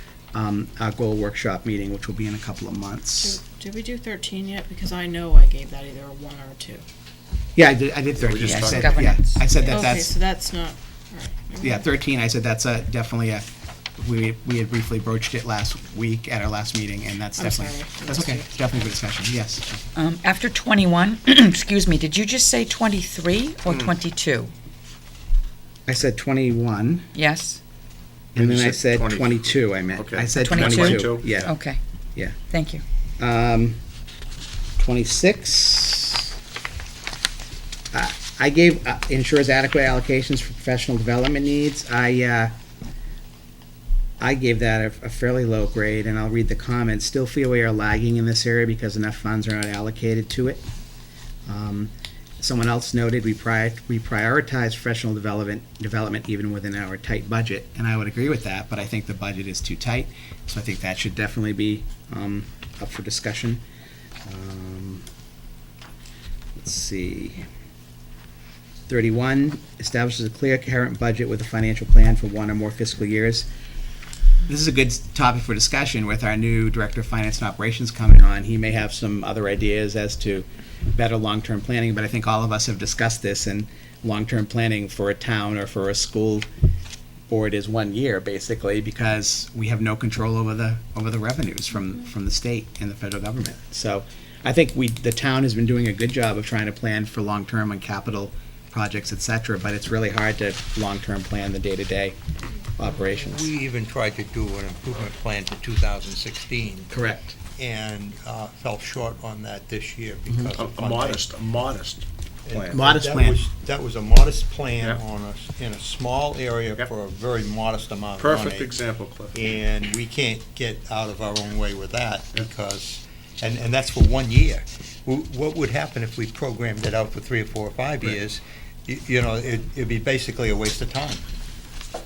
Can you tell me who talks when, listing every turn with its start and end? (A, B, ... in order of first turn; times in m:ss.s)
0:00.3-0:03.4 A
0:03.2-0:06.8 B
0:07.6-0:10.1 A
0:08.2-0:08.9 C
0:08.4-0:09.7 D
0:09.6-0:11.9 B
0:11.6-0:13.5 A
0:14.0-0:19.8 A
0:17.4-0:18.9 B
0:20.0-0:24.5 D
0:25.9-0:27.1 A
0:27.2-0:27.6 D
0:28.3-0:31.5 A
0:28.4-0:31.5 C
0:30.4-0:31.8 D
0:32.4-0:32.8 D
0:33.2-0:33.8 A
0:34.8-0:36.3 A
0:37.9-0:42.5 A
0:44.2-0:50.6 A
0:51.5-1:03.6 A
1:04.2-1:05.0 A
1:06.6-1:07.4 A
1:08.9-1:13.5 A
1:14.5-1:26.5 A
1:27.3-1:42.2 A
1:42.8-1:43.5 A
1:43.0-1:46.9 E
1:46.9-1:47.4 A
1:47.6-1:51.3 E
1:50.6-1:52.9 C
1:52.5-1:58.8 E
1:52.7-1:53.5 A
1:58.2-1:59.5 C
1:59.3-2:11.2 E